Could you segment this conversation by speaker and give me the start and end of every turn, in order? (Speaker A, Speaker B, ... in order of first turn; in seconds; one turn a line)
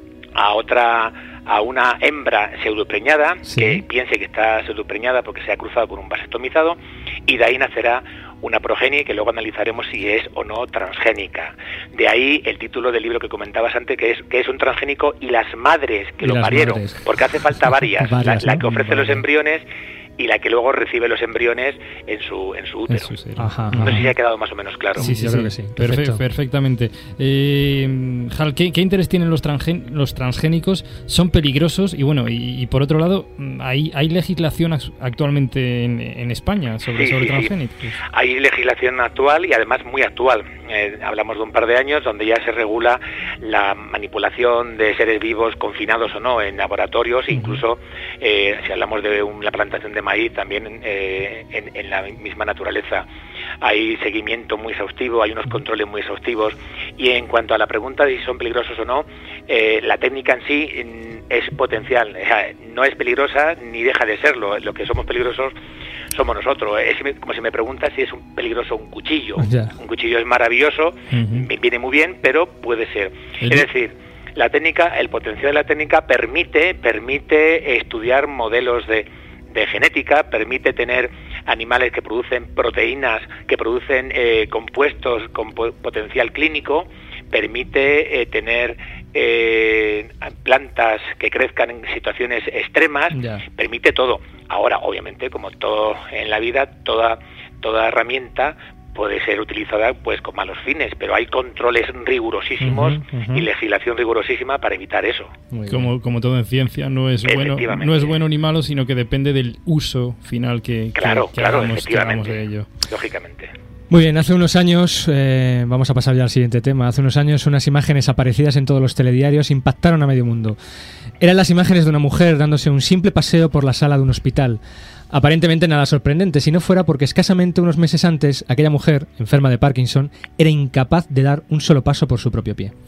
Speaker A: 0.4-19.6
Speaker B: 3.5-3.8
Speaker B: 16.2-17.1
Speaker B: 17.9-19.2
Speaker A: 20.2-23.2
Speaker C: 22.9-24.1
Speaker B: 23.4-24.1
Speaker A: 23.8-25.1
Speaker B: 25.0-26.2
Speaker C: 25.0-38.0
Speaker A: 37.0-37.5
Speaker A: 38.1-53.1
Speaker B: 47.3-47.6
Speaker A: 53.6-65.5
Speaker A: 66.1-105.3
Speaker B: 69.4-69.7
Speaker C: 71.1-71.5
Speaker C: 73.4-73.7
Speaker B: 93.1-93.4
Speaker B: 102.6-103.5
Speaker B: 105.5-105.9
Speaker C: 105.7-112.7
Speaker A: 107.3-108.2
Speaker A: 111.0-113.5
Speaker B: 113.9-120.6
Speaker B: 121.2-124.6
Speaker B: 125.1-132.7